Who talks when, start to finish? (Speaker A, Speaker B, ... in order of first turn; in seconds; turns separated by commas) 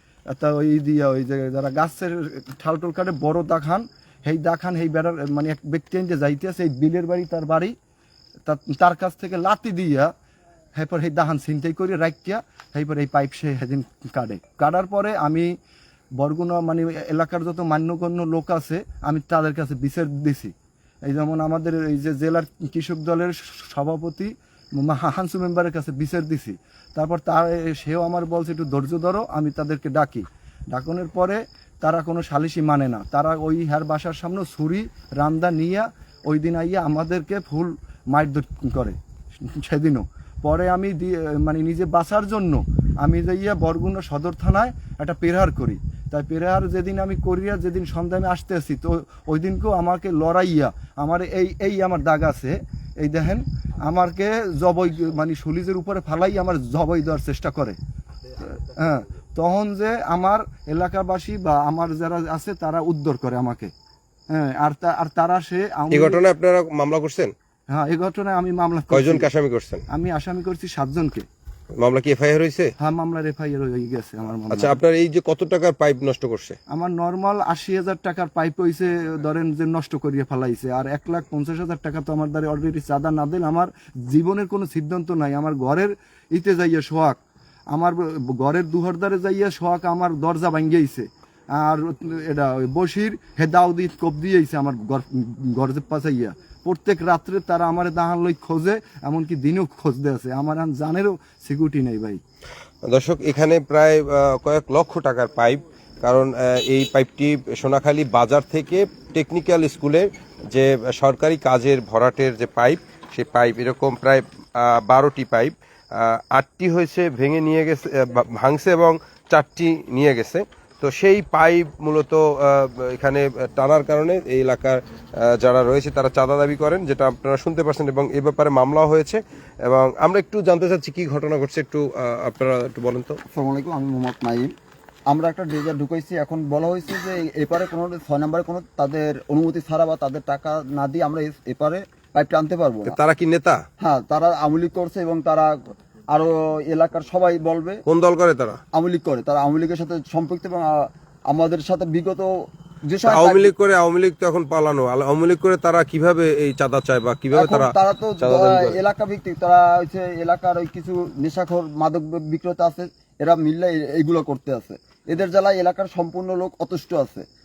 Speaker A: 0.3-7.8, Speaker A: 8.5-10.1, Speaker A: 10.8-15.6, Speaker A: 16.2-20.5, Speaker A: 21.1-57.8, Speaker A: 58.4-63.7, Speaker A: 64.3-66.2, Speaker B: 65.9-67.3, Speaker A: 67.7-69.3, Speaker B: 68.9-69.8, Speaker A: 69.9-71.3, Speaker B: 71.8-72.7, Speaker A: 72.8-74.8, Speaker B: 74.5-76.6, Speaker A: 76.7-87.2, Speaker A: 87.7-102.2, Speaker B: 102.9-133.2, Speaker C: 133.3-134.5, Speaker C: 135.1-143.0, Speaker B: 142.9-143.6, Speaker C: 143.8-145.5, Speaker C: 146.1-147.8, Speaker B: 147.9-148.6, Speaker C: 148.7-152.3, Speaker C: 152.8-153.5, Speaker B: 153.0-158.8, Speaker C: 157.3-167.2